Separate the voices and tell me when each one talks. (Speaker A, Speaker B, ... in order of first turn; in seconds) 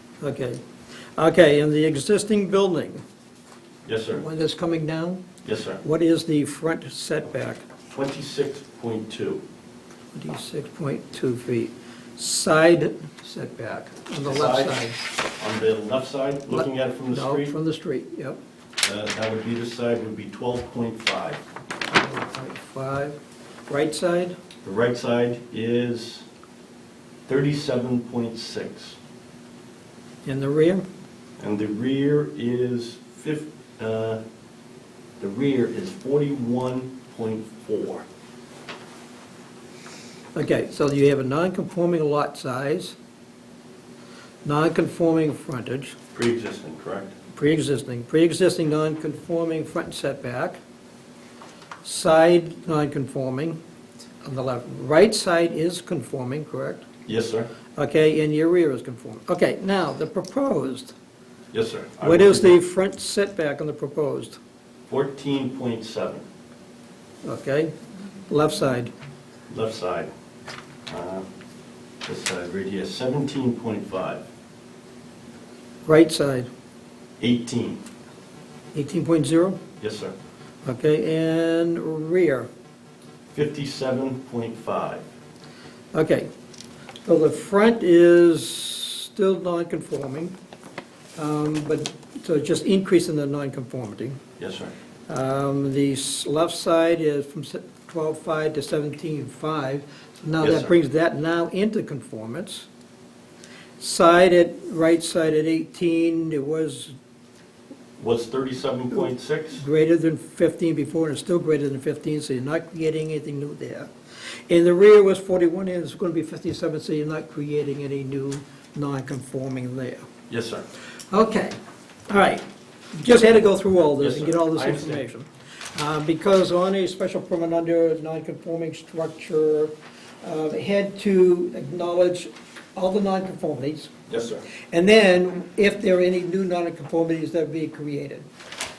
Speaker A: 0.2-0.6, 1.2-3.0, 4.2-5.2, 5.8-7.6, 10.1-15.0, 16.5-18.4, 21.9-23.2, 23.7-24.4, 30.2-30.9, 40.4-43.0, 44.5-46.0, 47.3-50.6, 51.8-53.6, 54.2-56.8, 57.8-61.0, 62.0-64.4, 67.2-67.7, 68.3-68.9, 75.9-76.5, 78.7-79.6, 80.7-82.5, 85.9-86.3, 87.1-90.4, 91.2-94.2, 95.1-102.7, 103.8-107.0, 109.6-113.9, 114.5-120.0, 121.1-121.6, 122.1-122.4, 123.0-133.9, 134.7-138.2
Speaker B: 3.9-4.2, 5.4-5.8, 7.9-9.4, 14.2-14.9, 15.4-17.6, 18.8-21.4, 24.6-26.3, 27.3-29.0, 31.4-34.2, 35.2-38.0, 46.1-47.1, 57.1-57.5, 61.5-62.6, 64.9-66.2, 69.5-70.1, 70.9-71.3, 72.0-74.2, 77.2-77.8, 79.8-80.1, 83.3-85.0, 94.4-94.7, 100.4-100.7, 108.0-109.6, 120.3-120.7, 124.0-125.0, 134.1-134.4